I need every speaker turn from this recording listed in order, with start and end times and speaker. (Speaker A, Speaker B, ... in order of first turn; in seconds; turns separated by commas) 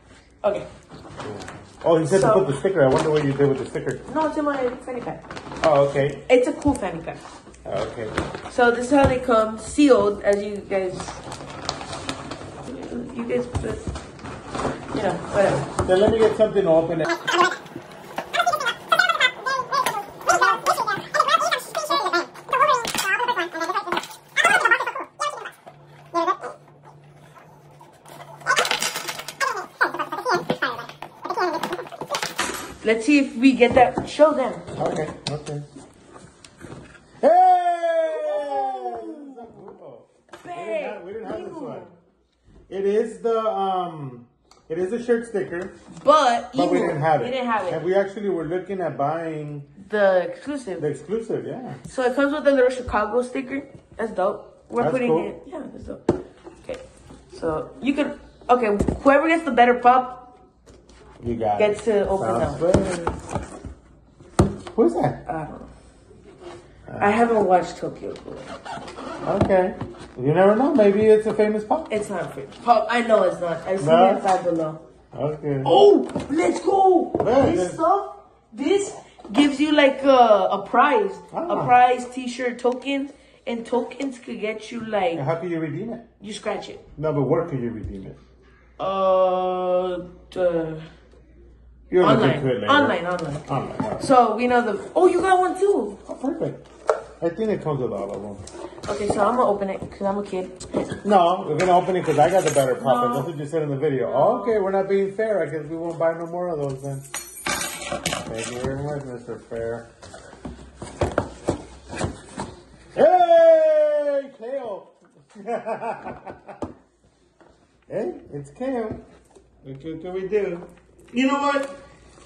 Speaker A: 0.4-0.7, Speaker B: 1.2-4.0, Speaker A: 2.1-2.5, Speaker A: 4.1-5.2, Speaker B: 5.6-6.2, Speaker A: 6.2-7.2, Speaker B: 7.6-8.2, Speaker A: 8.5-11.2, Speaker A: 12.7-13.9, Speaker A: 14.9-15.7, Speaker B: 15.7-17.2, Speaker A: 32.8-34.6, Speaker B: 34.8-35.6, Speaker B: 37.2-41.9, Speaker A: 38.1-39.3, Speaker A: 40.4-41.9, Speaker B: 42.7-45.7, Speaker A: 46.0-47.8, Speaker B: 46.5-49.7, Speaker A: 49.8-50.8, Speaker B: 50.8-51.8, Speaker A: 51.8-56.0, Speaker B: 54.8-55.3, Speaker A: 56.6-60.3, Speaker B: 61.2-63.0, Speaker A: 61.6-63.1, Speaker B: 64.7-65.2, Speaker A: 65.2-65.7, Speaker B: 66.9-67.2, Speaker A: 67.0-68.5, Speaker B: 69.2-71.9, Speaker A: 71.9-74.8, Speaker B: 73.8-74.2, Speaker B: 75.1-75.7, Speaker A: 75.6-85.2, Speaker B: 77.2-77.8, Speaker B: 81.3-81.8, Speaker B: 85.1-86.1, Speaker A: 86.2-86.8, Speaker B: 87.0-88.2, Speaker A: 88.8-90.9, Speaker B: 91.9-94.1, Speaker A: 92.0-96.0, Speaker B: 96.0-96.6, Speaker B: 97.2-98.4, Speaker A: 98.9-100.8, Speaker B: 101.0-107.0, Speaker A: 102.8-103.3, Speaker A: 104.0-104.6, Speaker B: 108.2-109.9, Speaker B: 112.9-116.5, Speaker B: 117.9-119.0, Speaker B: 119.6-121.7